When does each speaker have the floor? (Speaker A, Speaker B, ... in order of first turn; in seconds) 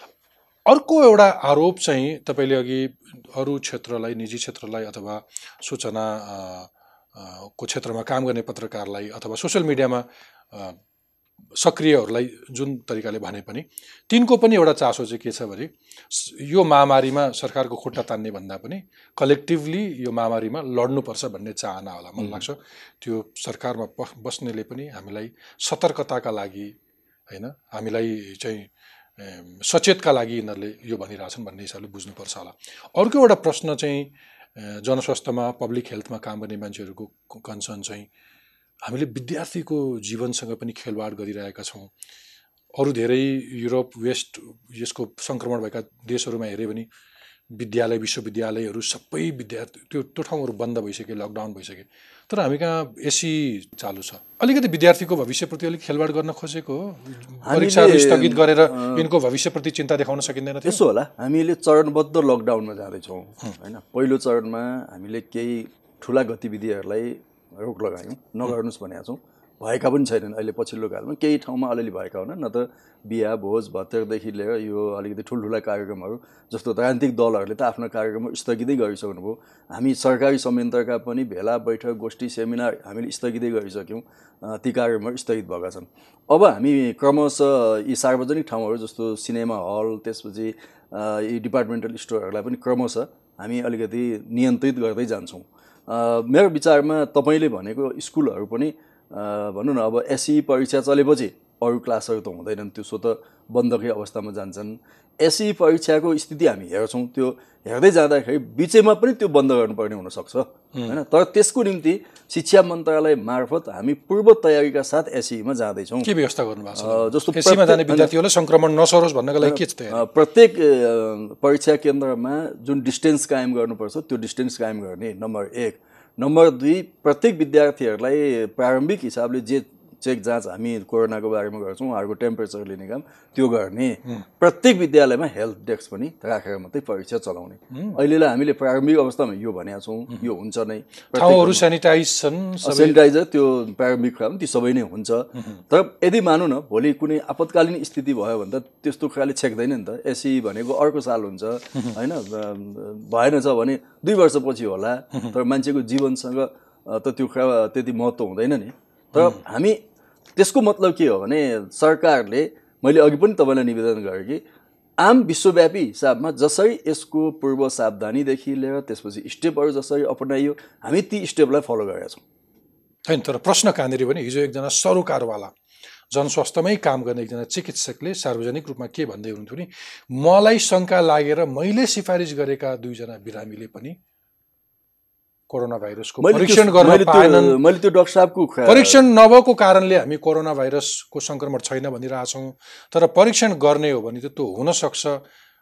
Speaker A: 0.7-10.8, 11.5-26.7, 27.3-38.1, 38.8-41.9, 42.7-46.9, 47.5-60.8, 116.0-120.0, 137.7-138.0, 141.1-143.0, 173.1-175.5, 176.1-184.0, 185.5-187.6, 188.7-195.2
Speaker B: 57.4-59.1, 60.6-116.1, 116.7-118.1, 119.4-141.7, 142.6-159.8, 160.3-164.4, 165.0-172.2, 186.2-189.0